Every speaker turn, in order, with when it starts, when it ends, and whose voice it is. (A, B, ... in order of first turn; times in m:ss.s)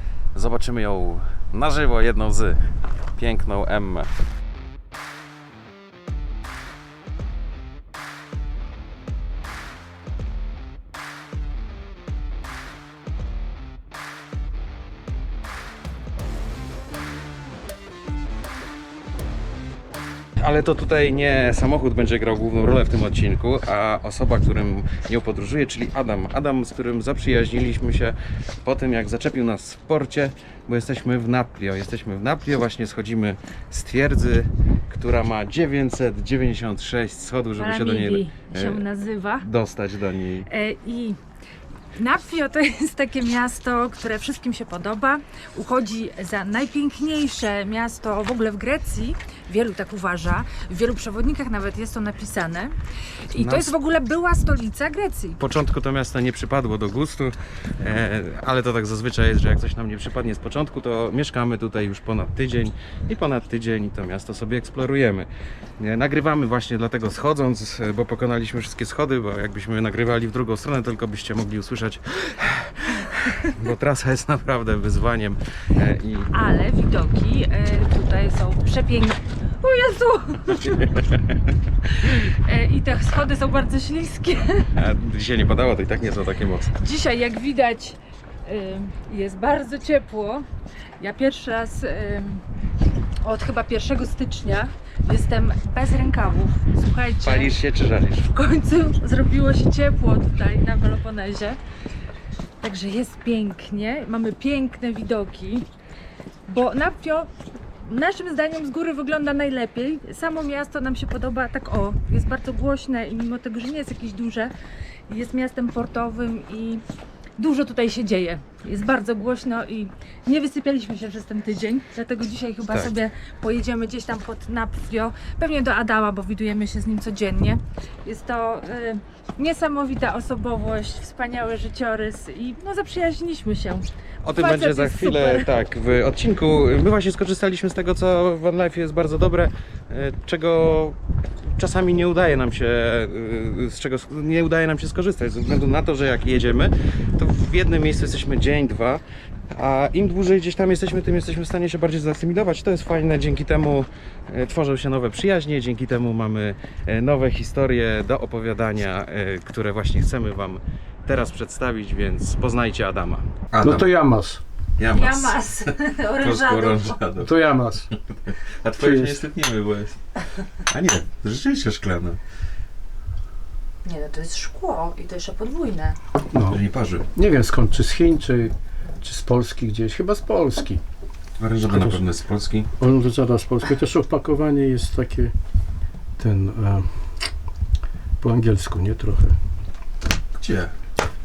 0:00.4-0:02.7 A
0:03.2-0:04.1 A
0:20.4-0:38.8 A
0:37.6-0:39.5 B
0:39.4-0:40.5 A
0:40.5-0:41.2 B
0:42.0-0:52.8 B
0:53.3-0:55.4 B
0:53.3-0:53.7 A
0:55.4-1:16.3 A
1:16.3-1:20.9 B
1:20.5-1:21.3 A
1:21.8-1:24.7 B
1:24.8-1:26.7 A
1:26.8-1:30.4 B
1:31.0-1:32.4 B
1:33.2-1:37.6 B
1:37.2-1:38.3 A
1:38.3-1:41.6 B
1:42.6-1:45.7 B
1:46.5-1:47.3 B
1:47.8-1:54.5 B
1:55.1-1:56.8 B
1:57.4-2:15.5 B
2:14.2-2:21.0 A
2:21.6-2:29.0 A
2:29.5-2:43.9 A
2:43.6-2:44.4 C
2:44.8-2:45.4 A
2:44.9-2:47.0 B
2:46.1-2:47.5 A
2:47.2-2:47.9 C
2:48.3-2:50.0 A
2:48.8-2:49.3 C
2:50.7-2:52.2 A
2:53.8-2:56.0 B
2:56.3-2:56.6 C
2:56.5-2:57.1 A
2:57.1-3:00.8 C
3:01.4-3:02.7 A
3:01.7-3:02.0 C
3:02.8-3:05.3 C
3:06.2-3:06.9 C
3:08.2-3:09.4 C
3:10.4-3:10.7 A